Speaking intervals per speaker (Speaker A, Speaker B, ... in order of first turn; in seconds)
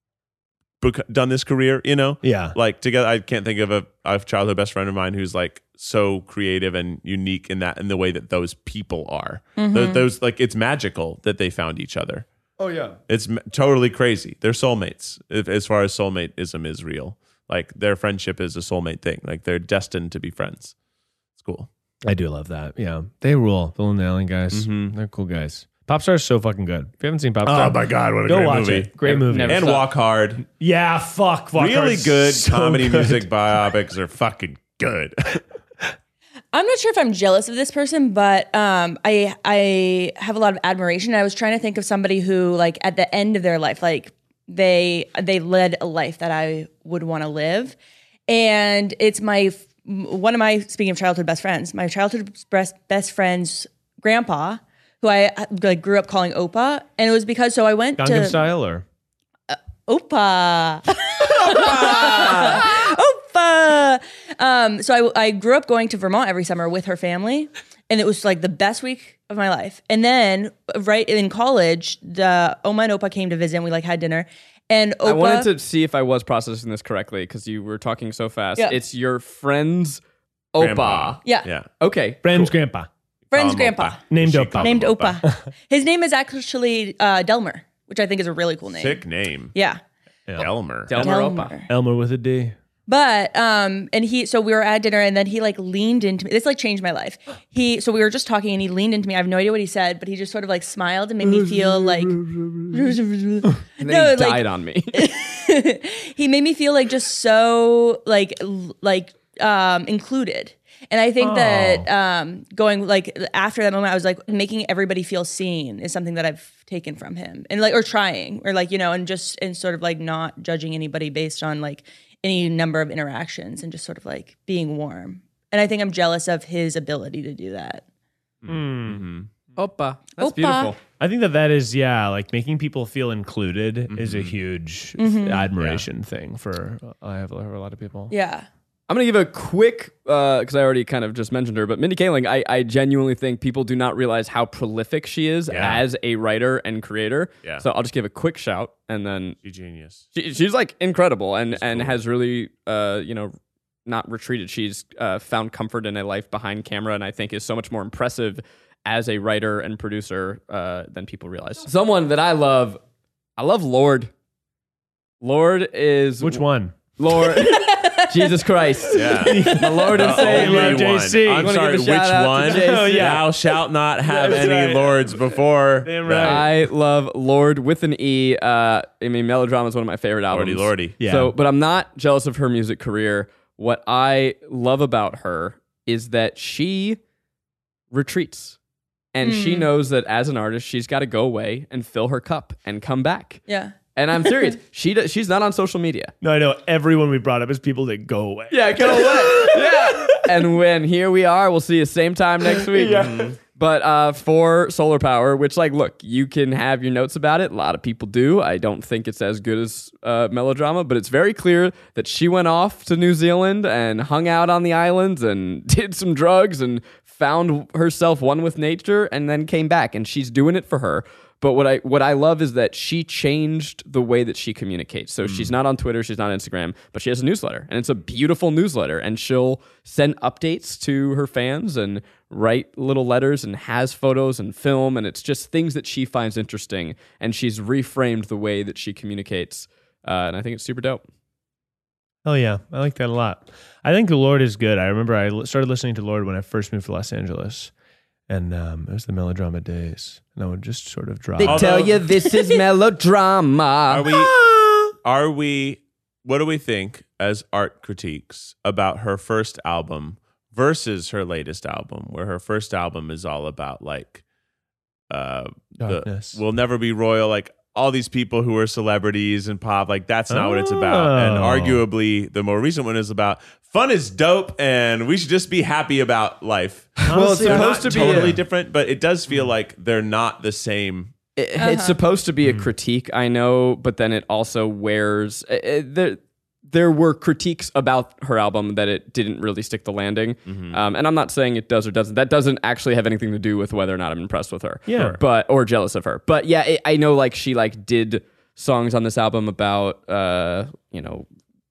Speaker A: 0.8-12.2, 13.1-20.7, 21.4-21.7, 24.5-24.9, 27.4-30.4, 31.6-35.4, 61.4-62.6, 80.6-81.7, 83.3-85.2, 88.7-89.5, 90.3-91.0, 128.4-129.3, 133.9-134.3, 145.5-145.8, 149.4-150.0, 151.5-152.0, 168.9-176.5, 180.3-181.0, 251.4-252.0, 253.9-254.4, 255.0-264.2, 265.1-281.1, 290.4-290.8
Speaker B: 2.2-2.5, 12.6-13.0, 22.0-29.7, 30.4-33.3, 58.0-58.8, 82.2-82.9, 84.1-85.3, 91.7-92.5, 101.4-101.7, 111.2-111.9, 128.5-129.1, 131.0-138.1, 145.5-145.8, 166.2-166.8, 169.2-171.6, 172.4-173.5, 174.0-176.5, 181.0-181.3, 196.2-200.3, 202.6-203.3, 242.2-247.7, 248.3-251.7, 254.1-254.9, 265.8-266.4, 270.3-271.8, 277.1-278.4, 294.9-295.2
Speaker C: 9.6-10.0, 36.5-47.8, 48.3-58.4, 59.5-75.5, 83.3-84.1, 84.6-89.0, 89.5-89.8, 90.9-91.7, 92.9-127.8, 130.2-130.7, 135.0-135.5, 138.1-138.5, 167.3-168.3, 189.2-189.7, 193.5-193.7, 281.6-282.0
Speaker D: 29.0-29.9, 75.0-80.0, 80.5-81.2, 81.8-82.5, 90.9-91.5, 103.8-105.0, 129.6-130.8, 138.9-149.3, 150.1-153.3, 153.8-162.8, 163.4-164.1, 165.2-166.4, 167.0-173.2, 176.2-187.0, 187.9-188.6, 189.1-193.4, 193.9-196.1, 198.5-241.0, 251.4-254.1, 277.1-278.4, 281.4-301.3